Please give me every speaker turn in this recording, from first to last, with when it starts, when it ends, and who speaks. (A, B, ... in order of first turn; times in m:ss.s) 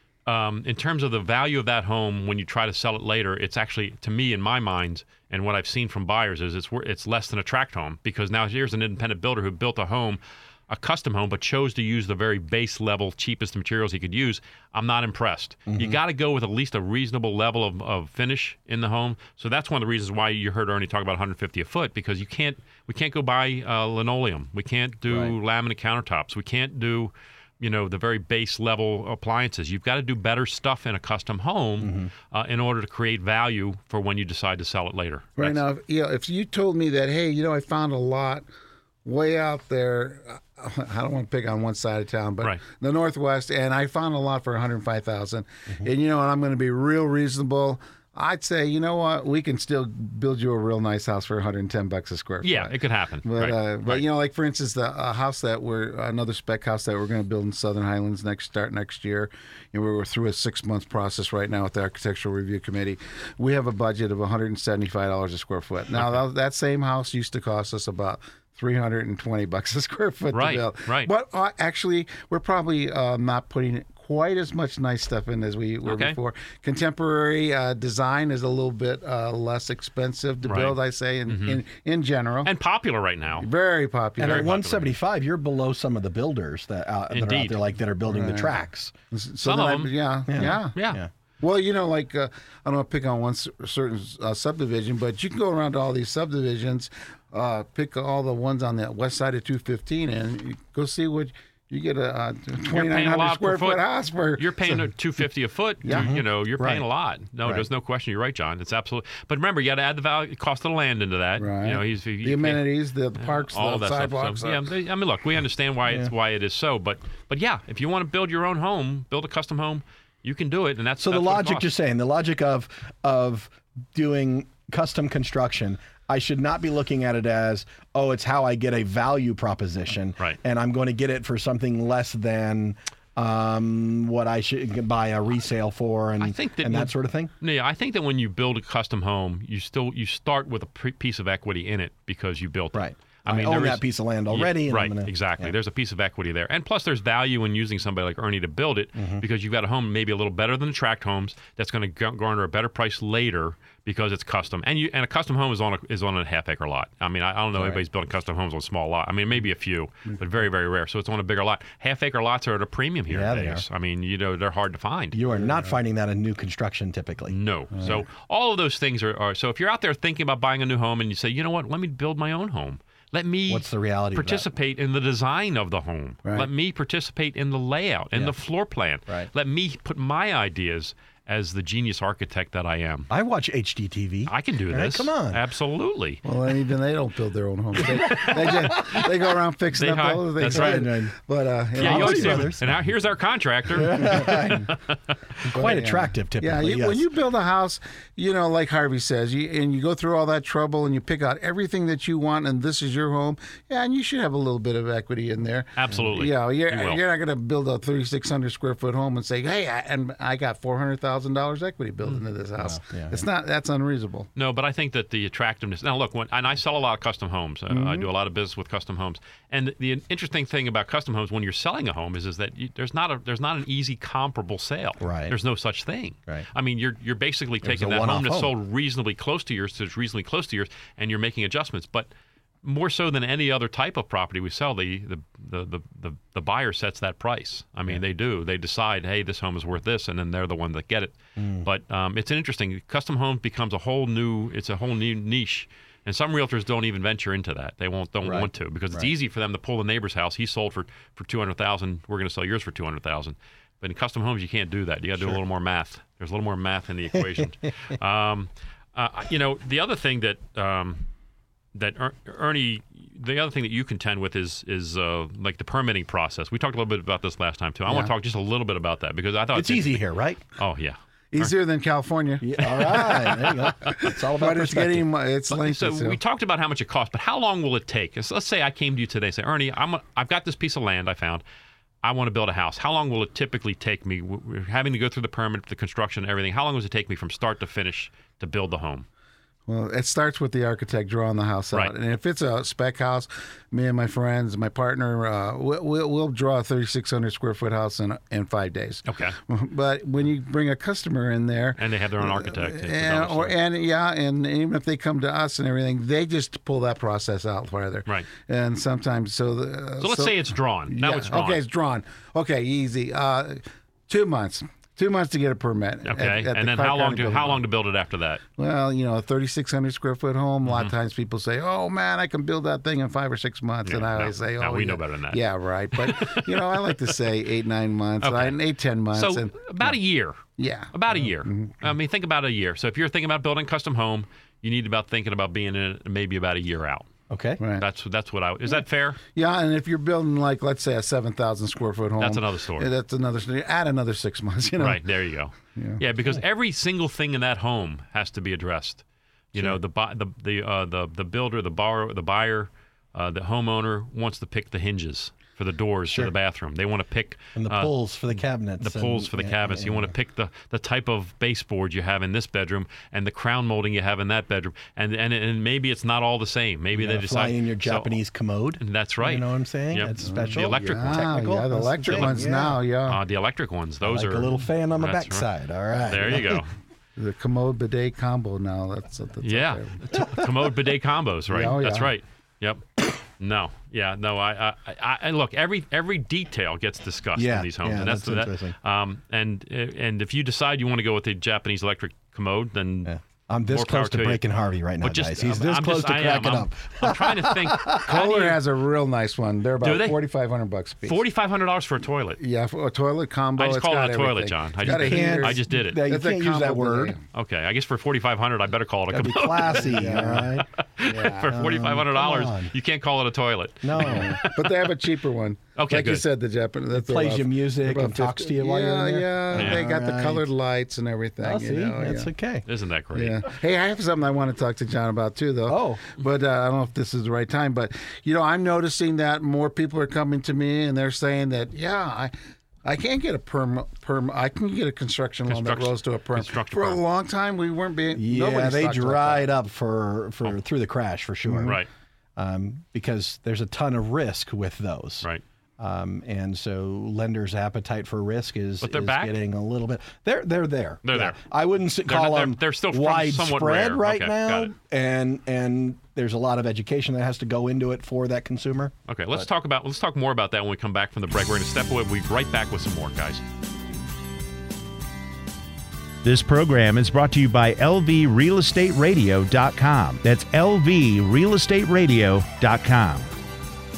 0:00.3-0:35.6 A
0:15.7-0:16.0 B
0:31.8-0:32.1 B
0:35.4-0:38.4 C
0:39.0-1:22.5 C
0:52.4-0:54.0 A
1:10.3-1:11.1 A
1:15.9-1:16.2 A
1:20.4-1:21.6 A
1:22.4-1:23.5 A
1:23.4-1:24.5 C
1:24.2-1:28.9 B
1:24.2-1:24.9 A
1:27.1-1:27.6 A
1:28.1-1:28.6 C
1:29.1-1:30.8 C
1:29.4-1:29.9 A
1:30.3-1:31.1 B
1:31.4-1:44.8 C
1:42.7-1:43.8 A
1:44.4-1:52.6 A
1:45.8-1:46.1 C
1:45.9-1:46.9 B
1:51.4-1:54.7 C
1:53.2-2:01.7 A
2:01.0-2:17.3 B
2:16.2-2:45.2 A
2:22.7-2:25.5 B
2:29.0-2:29.2 B
2:37.6-2:37.8 B
2:43.1-2:43.6 B
2:45.1-2:47.3 B
2:47.3-3:03.1 A
2:53.5-2:54.5 B
3:03.1-3:05.4 B
3:04.3-3:06.2 A
3:06.2-3:12.5 C
3:08.0-3:09.0 B
3:08.1-3:09.0 A
3:09.7-3:10.9 A
3:10.4-3:11.2 B
3:11.8-3:12.7 B
3:11.8-3:15.2 A
3:13.7-3:14.7 B
3:15.4-3:17.0 B
3:15.5-3:34.3 C
3:25.8-3:27.0 A
3:32.6-3:33.2 B
3:34.4-3:52.1 A
3:37.7-3:38.1 C
3:45.0-3:45.4 B
3:47.6-3:48.5 B
3:52.6-4:21.1 A
4:01.4-4:01.7 B
4:08.2-4:09.1 B
4:21.7-4:30.0 A
4:29.5-4:30.4 B
4:30.6-4:31.5 A
4:31.3-4:36.2 C
4:32.4-4:35.0 B
4:32.8-4:33.5 A
4:35.5-4:41.4 A
4:42.0-4:49.1 A
4:49.7-5:17.6 C
4:59.1-4:59.4 A
5:01.8-5:03.5 A
5:10.0-5:11.6 A
5:16.0-5:18.4 A
5:18.6-5:29.9 C
5:20.6-5:20.9 A
5:23.9-5:27.2 A
5:28.2-5:28.6 A
5:29.1-5:37.1 A
5:30.6-5:31.8 C
5:37.3-5:37.6 B
5:37.6-5:37.8 C
5:37.8-5:39.2 A
5:39.3-5:45.0 C
5:42.2-5:42.9 A
5:44.8-5:57.9 A
5:45.8-5:46.0 C
5:57.6-6:00.1 B
5:58.8-6:08.2 A
6:06.9-6:12.8 B
6:08.8-6:11.3 A
6:10.2-6:13.2 C
6:12.1-6:12.4 A
6:13.1-6:15.5 A
6:14.0-6:16.6 B
6:16.0-6:16.7 A
6:17.2-6:20.3 C
6:19.4-6:22.8 A
6:21.5-6:22.1 C
6:23.4-6:33.1 A
6:27.4-6:28.8 B
6:33.1-6:38.0 B
6:33.7-6:34.4 A
6:35.0-6:38.6 A
6:38.0-6:41.2 C
6:39.8-6:40.2 A
6:41.0-6:42.4 A
6:42.4-6:47.2 C
6:43.6-6:46.0 A
6:44.9-6:47.1 B
6:47.3-6:54.8 A
6:49.1-6:50.7 B
6:49.8-6:50.5 C
6:51.0-6:51.7 C
6:51.5-6:52.7 B
6:53.8-6:54.4 B
6:54.0-7:02.3 C
6:55.8-6:56.2 A
6:56.9-7:00.5 B
6:59.6-6:59.8 A
7:01.4-7:02.7 B
7:02.7-7:03.4 A
7:03.1-7:12.3 C
7:05.7-7:06.0 B
7:12.8-7:19.5 C
7:15.5-7:17.0 A
7:18.2-7:21.8 B
7:21.5-7:21.8 C
7:22.4-7:25.3 B
7:25.8-7:39.5 B
7:28.8-7:29.4 A
7:31.0-7:31.4 A
7:32.1-7:34.7 A
7:39.1-7:43.4 A
7:46.2-7:53.3 D